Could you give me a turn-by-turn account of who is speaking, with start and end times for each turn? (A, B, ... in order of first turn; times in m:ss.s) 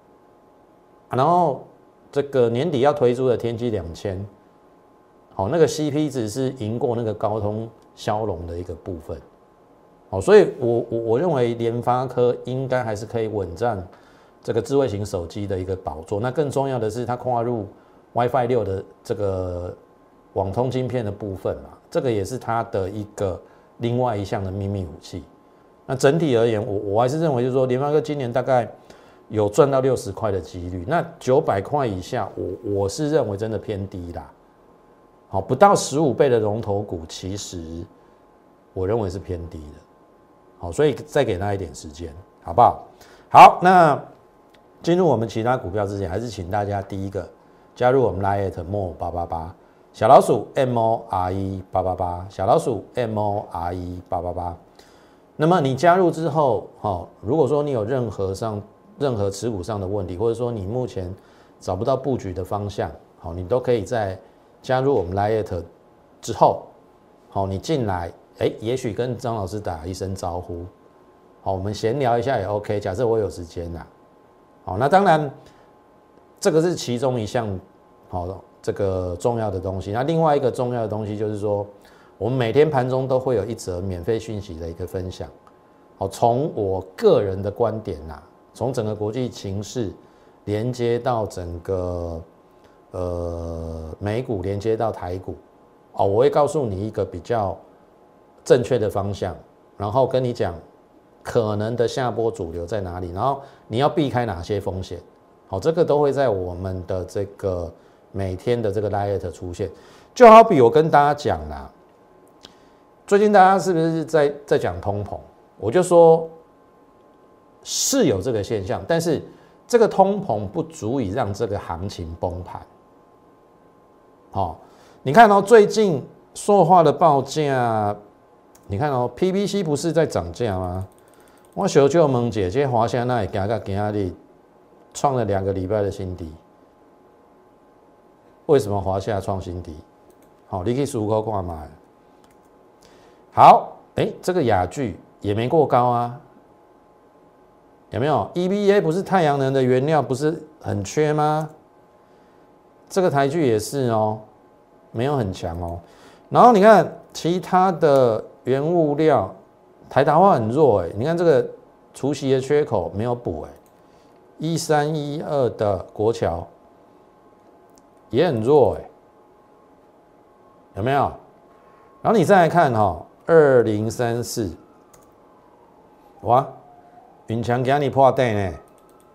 0:01.1-0:04.3 A
0:05.3-0:09.2 A
0:10.1-0:13.9 A
0:14.4-0:19.8 A
0:20.3-0:25.3 A
0:25.9-0:28.7 A
0:29.3-0:34.3 A
0:35.3-0:37.9 A
0:38.7-0:39.8 A
0:40.6-0:44.0 A
0:44.8-0:54.6 A
0:55.4-1:05.6 A
1:06.2-1:06.7 A
1:07.3-1:10.7 A
1:11.4-1:13.9 A
1:14.6-1:15.4 A
1:16.4-1:25.3 A
1:26.0-1:32.2 A
1:32.9-1:35.4 A
1:35.9-1:37.6 A
1:38.4-1:40.6 A
1:41.2-1:51.7 A
1:53.1-1:56.3 A
1:57.6-2:02.7 A
2:04.3-2:08.0 A
2:08.7-2:10.9 A
2:11.5-2:14.2 A
2:14.9-2:16.4 A
2:18.4-2:19.8 A
2:20.5-2:21.7 A
2:23.3-2:26.2 A
2:27.9-2:31.5 A
2:32.9-2:34.2 A
2:34.9-2:39.4 A
2:39.9-2:43.6 A
2:44.4-2:46.5 A
2:48.1-2:48.9 A
2:50.7-2:51.2 A
2:52.0-2:54.6 A
2:56.2-2:56.6 A
2:57.3-2:58.6 A